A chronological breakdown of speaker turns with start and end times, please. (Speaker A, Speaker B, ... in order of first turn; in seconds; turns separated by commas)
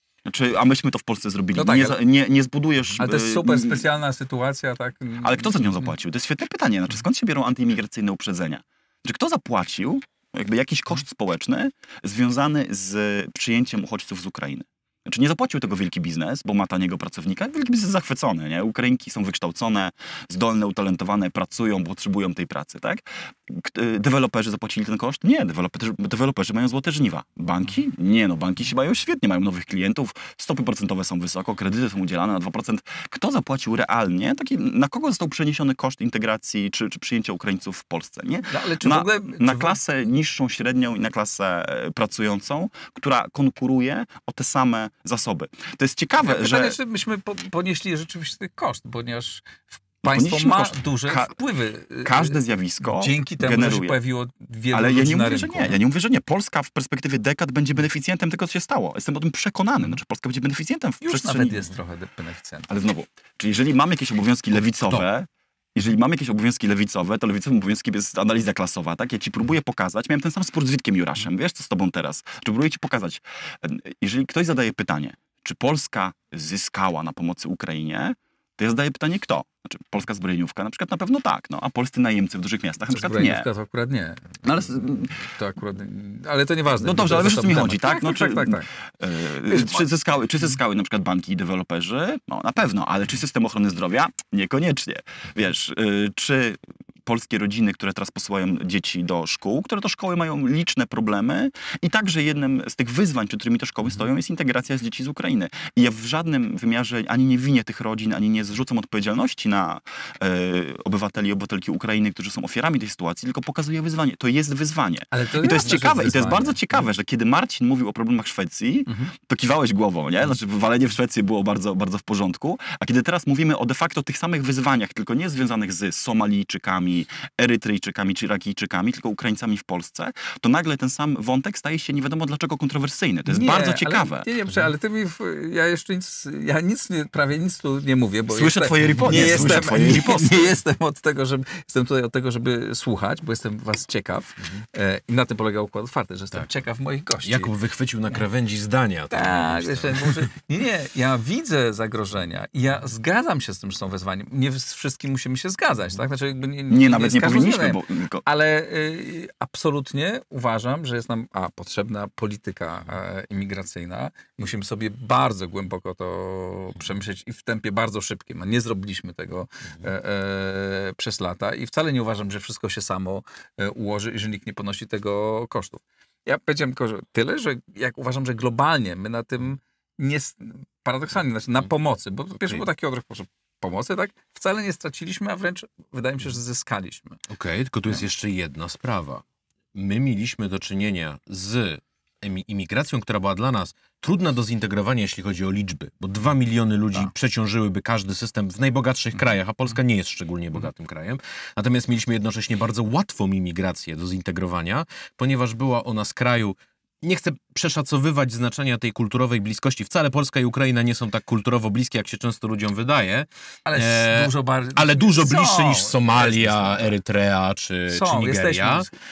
Speaker A: 0.2-3.8, Speaker B: 1.5-2.0, Speaker B: 3.0-5.9, Speaker A: 5.2-46.8, Speaker B: 38.5-39.8, Speaker B: 46.2-55.8, Speaker A: 50.1-51.3, Speaker A: 52.0-54.0, Speaker A: 54.7-61.6, Speaker B: 61.0-62.7, Speaker A: 62.7-83.5, Speaker B: 82.9-84.5, Speaker A: 84.4-85.2, Speaker B: 85.2-88.7, Speaker A: 86.7-134.3, Speaker B: 89.5-89.8, Speaker B: 115.1-116.6, Speaker B: 118.9-119.1, Speaker B: 133.3-147.5, Speaker A: 138.3-140.6, Speaker C: 139.1-139.6, Speaker C: 147.2-150.2, Speaker B: 149.1-187.2, Speaker A: 156.7-158.2, Speaker C: 187.3-218.9, Speaker B: 213.6-216.9, Speaker B: 217.9-218.9